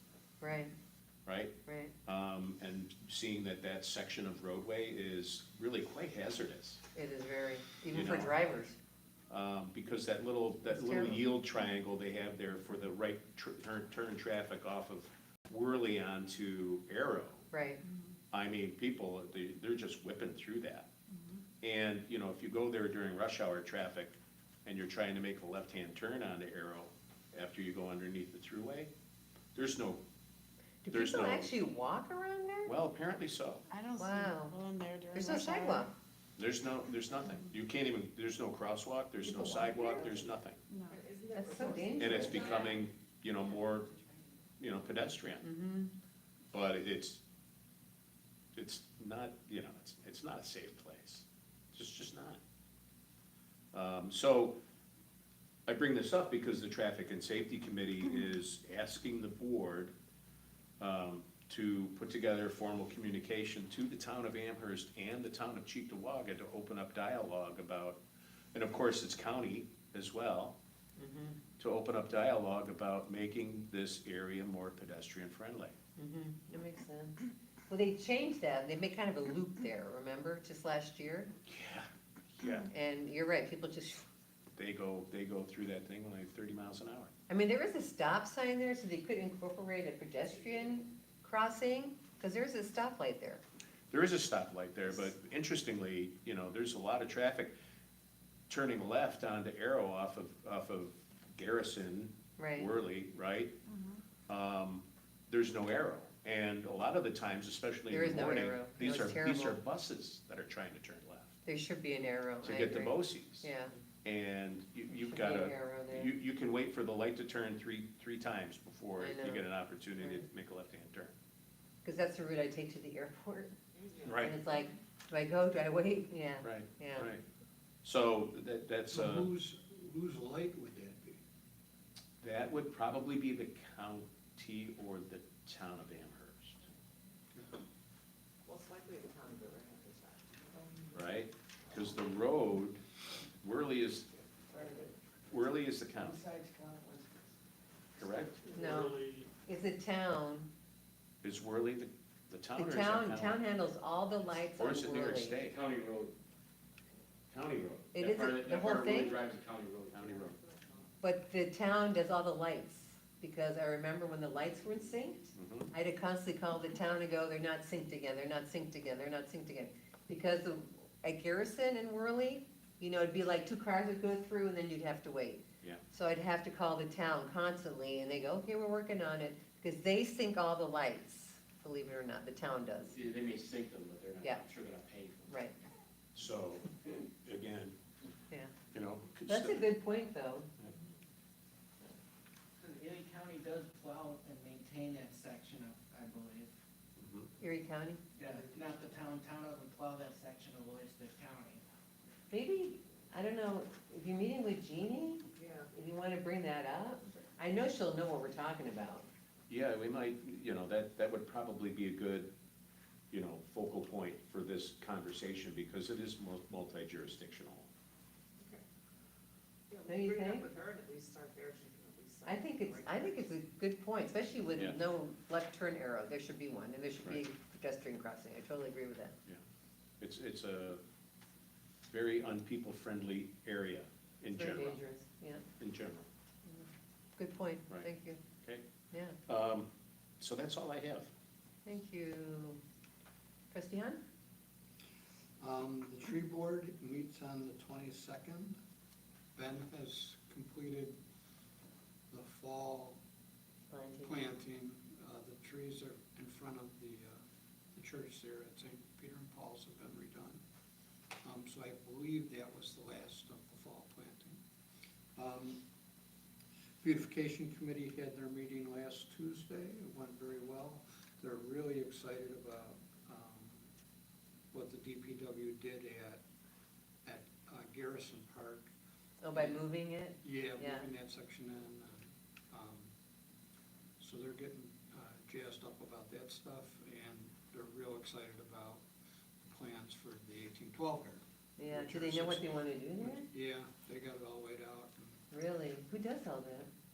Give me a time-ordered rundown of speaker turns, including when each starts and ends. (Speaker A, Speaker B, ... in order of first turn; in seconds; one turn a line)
Speaker A: 0.4-0.7
Speaker B: 1.2-1.5
Speaker A: 1.6-1.9
Speaker B: 2.0-6.8
Speaker A: 6.9-8.8
Speaker B: 7.9-8.3
Speaker B: 9.3-17.5
Speaker A: 10.7-11.2
Speaker A: 17.5-17.8
Speaker B: 18.3-20.9
Speaker B: 21.6-28.9
Speaker B: 29.5-30.0
Speaker A: 30.8-32.7
Speaker B: 30.9-31.5
Speaker B: 32.6-33.6
Speaker C: 33.7-35.8
Speaker A: 34.0-34.6
Speaker D: 34.7-35.4
Speaker A: 35.1-35.9
Speaker B: 36.4-40.6
Speaker C: 40.7-41.0
Speaker D: 40.7-42.8
Speaker A: 41.3-42.6
Speaker B: 42.0-43.9
Speaker B: 44.6-45.4
Speaker A: 45.4-45.9
Speaker B: 46.5-47.2
Speaker B: 48.5-52.4
Speaker B: 53.7-54.6
Speaker B: 55.7-59.9
Speaker B: 60.8-68.0
Speaker B: 68.5-70.5
Speaker A: 71.0-71.4
Speaker B: 71.6-75.7
Speaker A: 76.0-81.3
Speaker B: 81.5-82.7
Speaker A: 82.7-84.0
Speaker B: 84.5-87.1
Speaker A: 87.3-93.4
Speaker B: 93.9-97.5
Speaker B: 98.5-103.5
Speaker A: 102.4-102.7
Speaker B: 104.3-111.4
Speaker A: 107.9-109.6
Speaker A: 111.5-113.7
Speaker B: 112.4-113.5
Speaker B: 114.0-121.1
Speaker A: 115.1-116.1
Speaker A: 119.0-119.5
Speaker A: 121.8-123.5
Speaker B: 124.0-124.3
Speaker A: 124.2-127.1
Speaker B: 126.4-127.2
Speaker B: 127.8-129.3
Speaker E: 128.9-131.2
Speaker B: 132.2-136.6
Speaker D: 138.4-140.4
Speaker B: 140.9-142.8
Speaker B: 143.4-144.1
Speaker F: 144.5-144.9
Speaker B: 145.3-146.2
Speaker F: 146.0-147.3
Speaker B: 148.0-148.3
Speaker G: 148.0-149.3
Speaker A: 148.5-150.5
Speaker B: 151.2-153.4
Speaker A: 152.5-155.4
Speaker B: 154.5-155.6
Speaker G: 155.5-156.1
Speaker B: 157.3-157.9
Speaker A: 157.9-159.2
Speaker G: 157.9-160.3
Speaker B: 159.9-160.3
Speaker A: 161.0-182.9
Speaker B: 165.3-165.7
Speaker G: 182.9-185.4
Speaker A: 185.3-185.6
Speaker B: 186.1-187.8
Speaker B: 188.7-189.7
Speaker A: 189.2-190.5
Speaker F: 192.6-196.5
Speaker B: 197.0-197.3
Speaker A: 197.4-198.0
Speaker F: 198.2-201.6
Speaker A: 202.3-209.1
Speaker D: 205.3-205.7
Speaker B: 209.5-212.3
Speaker B: 213.1-217.7
Speaker D: 219.7-223.2
Speaker A: 219.9-220.5
Speaker A: 222.2-229.2
Speaker B: 230.0-230.8
Speaker B: 231.9-234.8
Speaker A: 234.3-235.4
Speaker B: 235.6-236.1
Speaker A: 236.5-238.2
Speaker B: 239.2-241.1
Speaker A: 241.7-242.6
Speaker A: 243.5-244.0
Speaker E: 245.4-248.6
Speaker E: 249.3-251.0
Speaker E: 252.1-253.0
Speaker A: 253.7-254.1
Speaker E: 254.0-257.2
Speaker E: 257.7-260.4
Speaker E: 261.2-264.4
Speaker E: 265.1-265.6
Speaker E: 266.8-273.6
Speaker E: 274.5-276.2
Speaker E: 277.0-278.7
Speaker A: 279.2-280.8
Speaker E: 279.4-279.6
Speaker E: 280.2-282.9
Speaker E: 284.0-288.8
Speaker E: 289.4-295.2
Speaker A: 291.6-293.3
Speaker A: 295.3-296.7